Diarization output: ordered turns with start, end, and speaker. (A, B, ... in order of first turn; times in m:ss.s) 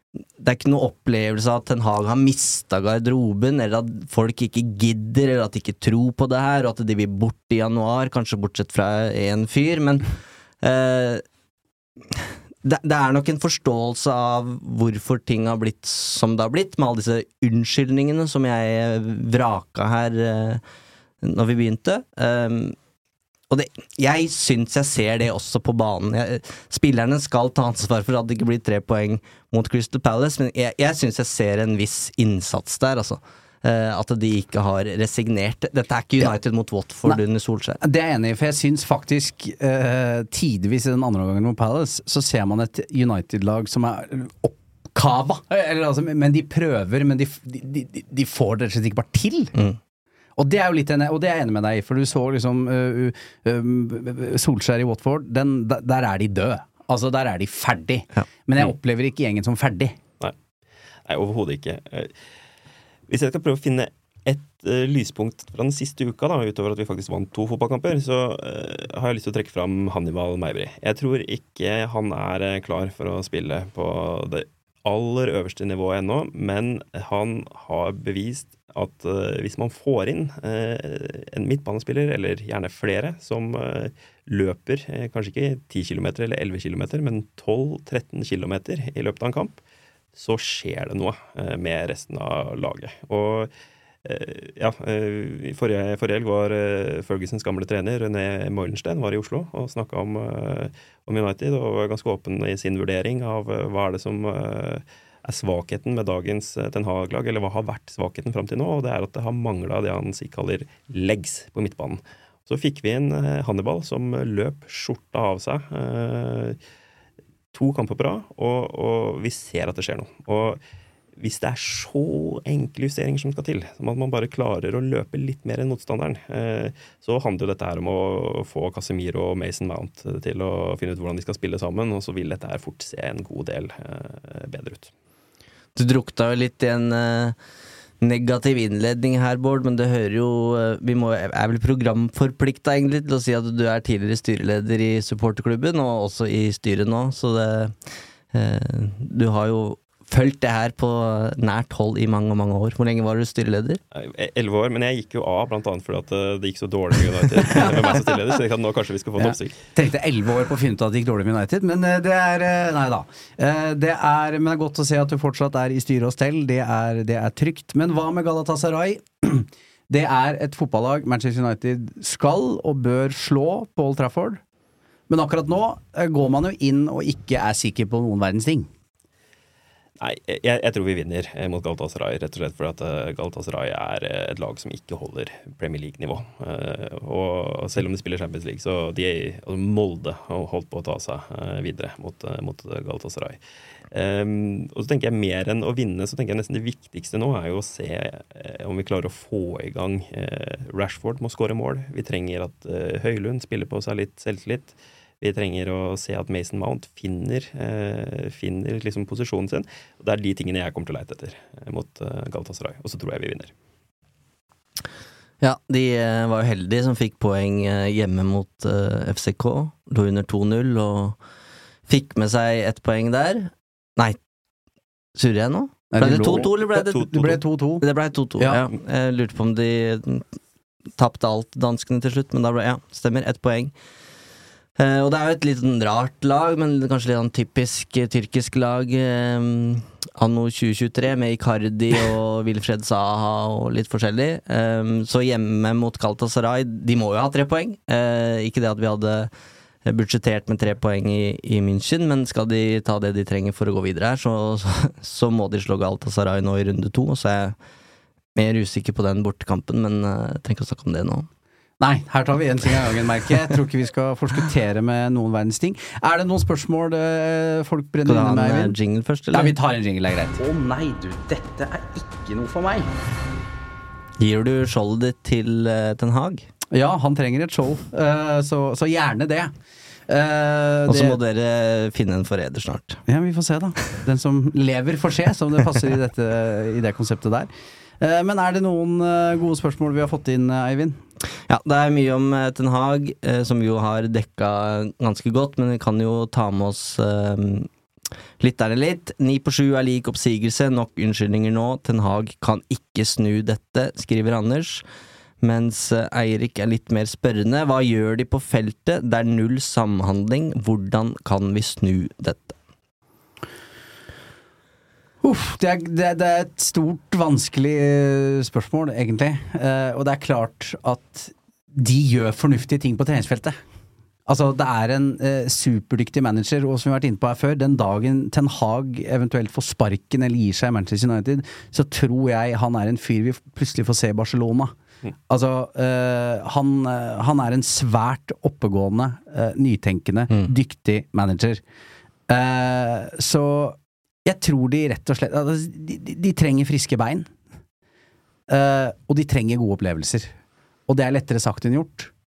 0:00.4-0:10.1 A
0:10.6-0:11.2 A
0:12.1-0:20.6 A
0:21.2-0:22.8 A
0:23.5-0:37.8 A
0:37.8-0:49.6 B
0:50.4-1:00.0 B
1:01.1-1:02.1 C
1:03.1-1:29.6 C
1:30.2-1:33.5 C
1:34.0-1:56.6 C
1:57.5-2:00.6 C
2:01.2-2:14.9 C
2:15.8-2:17.4 A
2:18.0-2:27.8 A
2:28.3-2:33.8 A
2:33.9-2:39.6 C
2:39.2-2:54.4 B
2:55.1-2:58.7 B
3:00.0-3:13.4 C
3:13.9-3:33.5 C
3:35.4-3:41.2 A
3:41.9-3:44.2 A
3:45.2-3:50.3 A
3:45.9-3:47.8 B
3:51.0-3:53.7 A
3:54.8-4:09.3 A
4:09.8-4:17.6 A
4:18.4-4:21.3 A
4:21.8-4:28.8 B
4:28.1-4:29.5 A
4:29.3-4:32.9 B
4:34.2-4:36.5 A
4:36.7-4:39.5 B
4:40.1-4:41.2 B
4:40.9-4:43.0 A
4:43.1-4:51.0 B
4:51.5-4:57.7 A
4:58.4-5:04.8 A
5:05.4-5:12.6 A
5:15.2-5:23.6 B
5:24.3-5:34.7 B
5:35.3-5:41.6 B
5:42.3-5:47.3 B
5:48.5-5:50.3 B
5:50.9-5:52.1 B